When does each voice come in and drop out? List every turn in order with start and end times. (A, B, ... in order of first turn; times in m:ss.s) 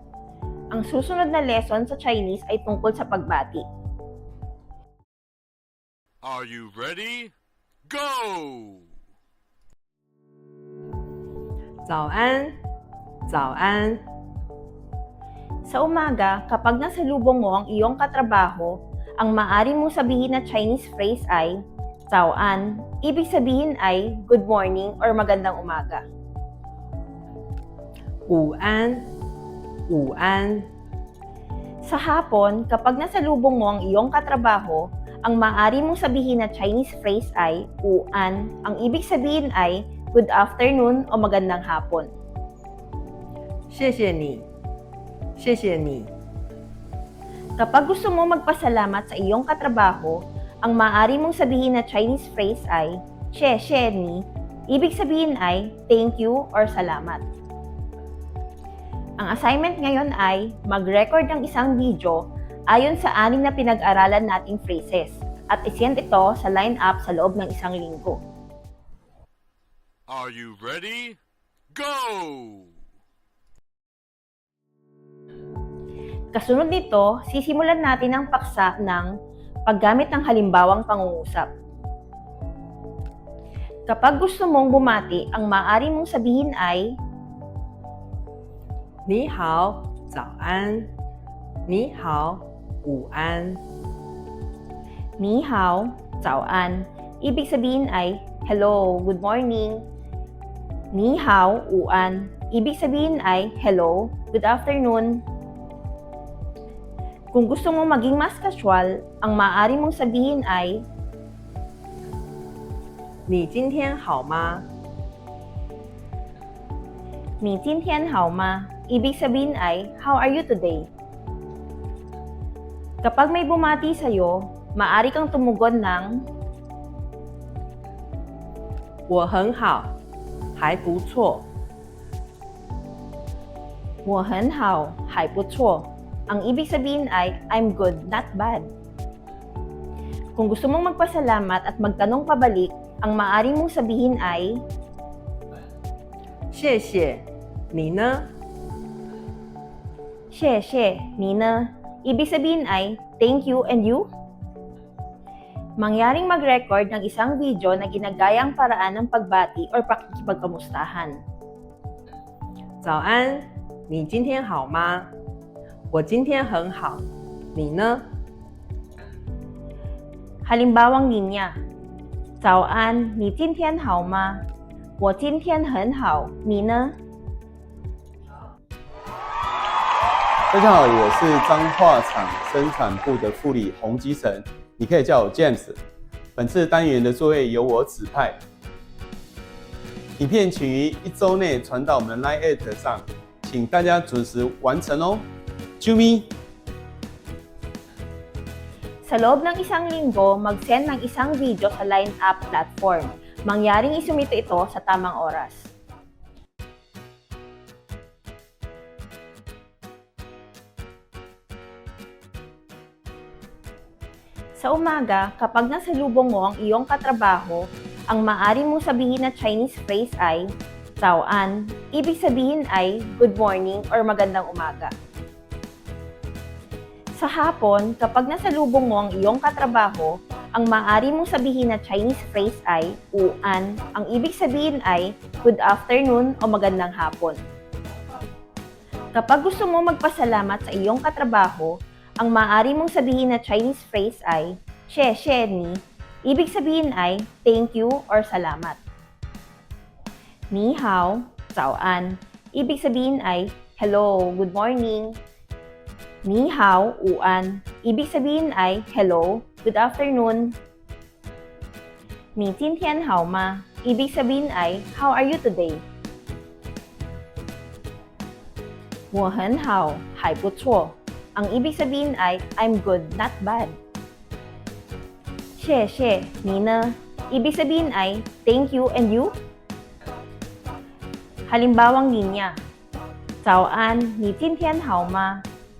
0:00.7-0:03.6 A
0:06.2-0:07.3 B
0:07.9-0:08.8 B
0:11.8-0:12.5 C
0:13.3-0:14.0 C
0:15.6-0:21.6 A
0:22.1-0:26.0 A
0:28.3-0:29.1 C
0:29.9-0:30.6 C
0:31.8-0:42.1 A
0:43.7-0:44.4 C
0:45.4-0:46.1 C
0:47.6-0:57.2 A
0:59.2-1:08.2 A
1:10.1-1:11.2 B
1:11.7-1:12.7 B
1:16.3-1:19.1 A
1:19.7-1:21.5 A
1:23.9-1:27.0 A
1:29.0-1:30.9 C
1:31.7-1:33.6 C
1:35.2-1:39.8 A
1:40.9-1:45.2 A
1:47.3-1:50.8 A
1:53.3-1:54.6 C
1:57.4-2:00.9 A
2:03.0-2:06.2 A
2:09.1-2:09.9 C
2:10.6-2:11.4 C
2:14.0-2:18.7 A
2:20.4-2:24.6 A
2:26.5-2:28.3 C
2:30.3-2:34.1 A
2:35.8-2:41.2 A
2:42.8-2:45.1 C
2:45.9-2:48.0 C
2:50.4-2:51.6 A
2:52.4-2:54.4 A
2:55.0-2:56.9 A
3:00.5-3:05.8 D
3:06.4-3:08.4 D
3:10.2-3:15.3 D
3:15.8-3:16.3 D
3:19.0-3:25.7 A
3:34.6-3:40.5 A
3:41.0-3:44.9 A
3:47.1-3:57.4 A
3:59.1-4:08.8 A
4:10.5-4:15.2 A
4:16.2-4:20.6 A
4:22.3-4:25.8 A
4:29.1-4:33.8 A
4:35.6-4:39.4 A
4:41.4-4:42.6 A
4:43.4-4:45.4 A